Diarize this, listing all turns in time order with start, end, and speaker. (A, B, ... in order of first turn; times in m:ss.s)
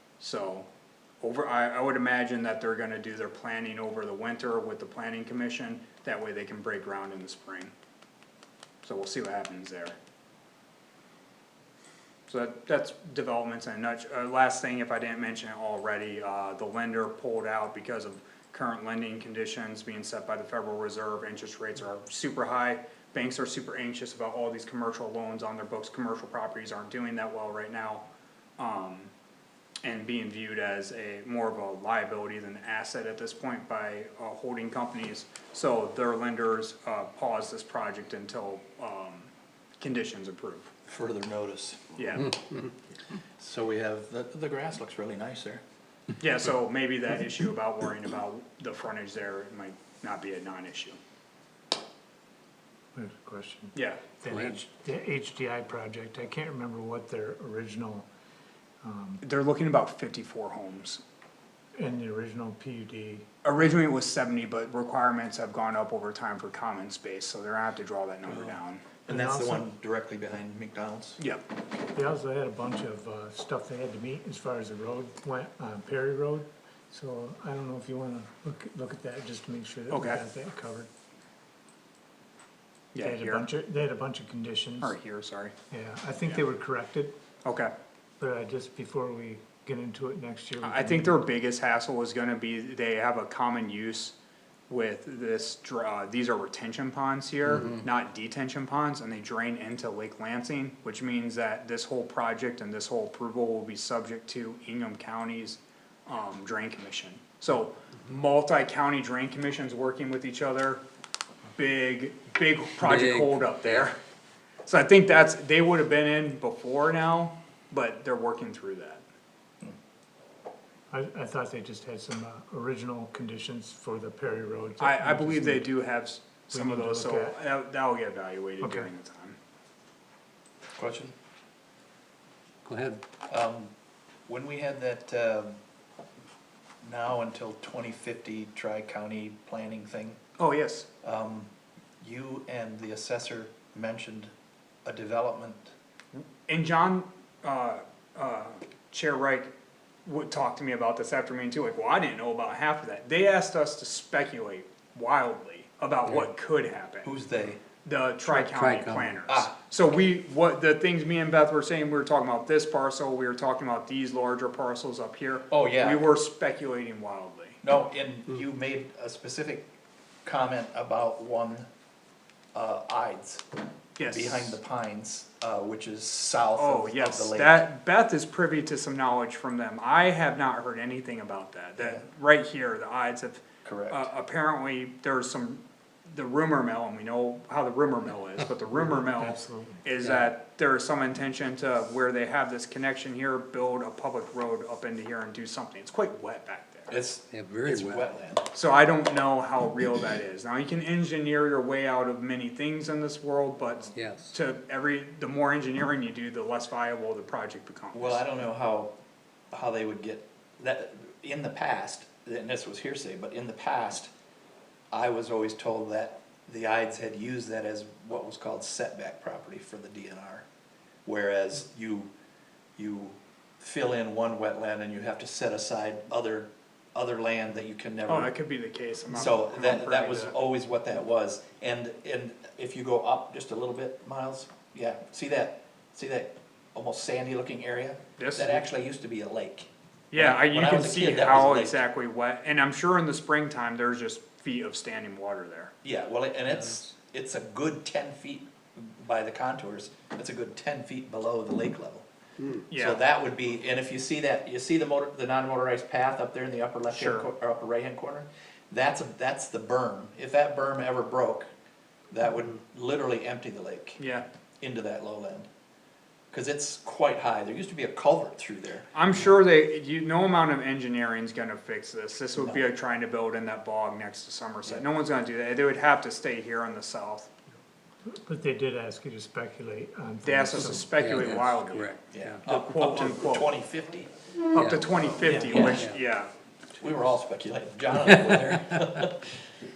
0:00.2-0:00.6 A
0:01.2-0:07.7 A
0:08.8-0:09.9 A
0:12.3-0:28.0 A
0:28.6-0:29.1 A
0:29.8-0:40.7 A
0:40.9-0:41.9 B
0:42.0-0:42.4 A
0:43.4-0:45.6 B
0:46.2-0:51.0 A
0:52.9-0:58.1 C
0:53.7-0:54.0 A
0:54.3-0:54.6 D
0:58.8-0:59.2 C
0:59.2-1:01.0 A
1:01.8-1:03.2 C
1:03.4-1:08.8 A
1:08.3-1:11.2 B
1:09.1-1:09.6 C
1:11.2-1:11.4 A
1:11.9-1:20.9 C
1:19.9-1:20.2 A
1:22.9-1:23.5 A
1:23.0-1:25.0 C
1:24.8-1:25.5 A
1:25.7-1:27.1 C
1:27.4-1:27.7 A
1:28.2-1:31.2 C
1:30.6-1:34.1 A
1:34.7-1:50.8 A
1:51.6-1:54.0 A
1:52.8-1:53.9 D
1:54.6-1:59.0 A
2:00.9-2:05.7 C
2:04.8-2:09.4 A
2:06.5-2:07.4 C
2:08.6-2:08.9 C
2:10.7-2:11.1 B
2:12.6-2:13.0 D
2:13.3-2:13.7 B
2:14.3-2:15.6 B
2:16.8-2:20.2 B
2:20.4-2:20.9 A
2:21.0-2:24.3 B
2:24.8-2:25.7 B
2:26.1-2:29.5 A
2:30.0-2:37.1 A
2:37.0-2:37.6 B
2:37.8-2:47.6 A
2:38.2-2:39.1 D
2:39.3-2:39.5 B
2:45.5-2:46.1 B
2:47.6-2:49.7 B
2:50.2-2:51.7 B
2:52.5-2:53.4 B
2:54.0-2:54.6 A
2:54.0-2:57.6 B
2:56.6-3:16.9 A
3:01.8-3:02.0 B
3:03.6-3:04.1 B
3:09.1-3:09.8 C
3:10.0-3:10.3 D
3:16.9-3:18.4 B
3:17.3-3:18.1 D
3:18.5-3:28.2 A
3:23.9-3:24.3 D
3:27.9-3:28.9 B
3:29.5-3:34.1 B
3:34.9-3:40.4 B
3:41.0-3:42.1 B
3:42.8-3:48.3 B
3:48.1-3:50.3 A
3:49.1-4:01.8 B
3:58.2-3:58.6 A
4:00.1-4:05.7 A
4:05.8-4:12.0 B
4:12.6-4:21.5 B
4:12.7-4:13.0 A
4:16.9-4:17.3 A
4:22.1-4:24.0 B
4:24.0-4:24.2 A
4:24.6-4:25.5 B
4:26.3-4:28.9 B
4:28.9-4:37.3 A
4:32.3-4:32.6 B
4:38.1-4:40.9 C
4:40.2-4:41.9 A
4:41.0-4:42.4 D
4:42.1-4:44.1 B
4:42.4-4:43.5 A
4:44.5-4:46.3 A
4:44.5-4:46.0 D
4:45.2-4:45.9 B
4:46.8-4:49.3 B
4:47.9-4:49.1 D